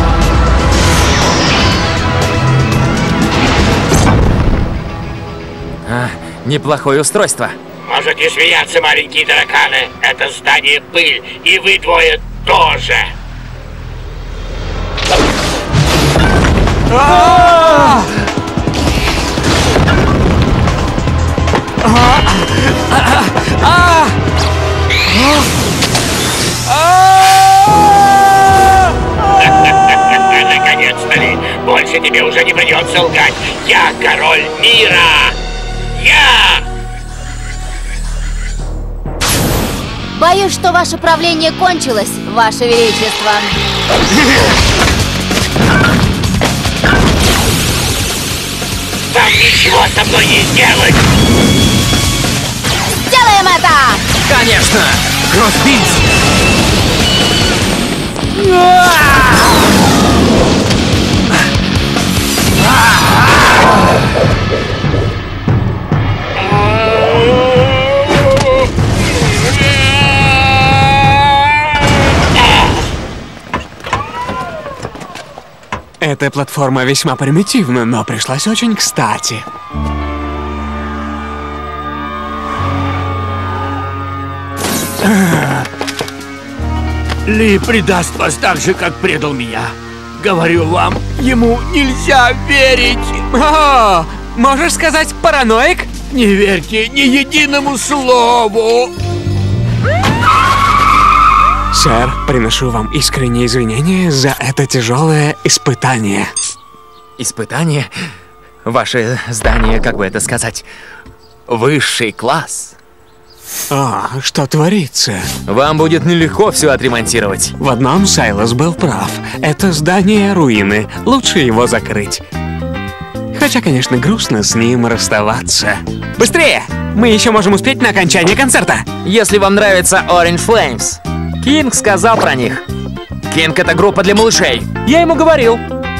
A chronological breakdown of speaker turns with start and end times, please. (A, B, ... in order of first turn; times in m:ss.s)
0:05.9-0:11.4 A
0:07.9-0:13.1 B
0:16.9-0:18.0 C
0:21.9-0:24.1 C
0:29.7-0:35.4 A
0:30.4-0:35.1 B
0:36.0-0:36.6 B
0:36.0-0:36.6 A
0:40.1-0:43.6 D
0:49.1-0:51.0 B
0:49.2-0:50.9 A
0:53.1-0:54.0 D
0:54.3-0:55.0 A
0:54.5-0:54.9 B
0:55.3-0:56.0 E
1:16.0-1:19.4 C
1:25.2-1:25.6 E
1:27.3-1:33.2 E
1:33.3-1:35.9 C
1:36.1-1:38.9 E
1:41.7-1:46.3 C
1:47.2-1:47.9 A
1:48.6-1:50.7 A
1:51.5-1:52.8 A
1:53.7-1:55.3 C
1:55.5-1:57.5 A
1:57.6-2:02.2 C
2:03.3-2:08.9 C
2:09.0-2:12.6 A
2:10.5-2:11.0 B
2:11.6-2:12.6 B
2:13.3-2:15.6 B
2:13.3-2:15.6 A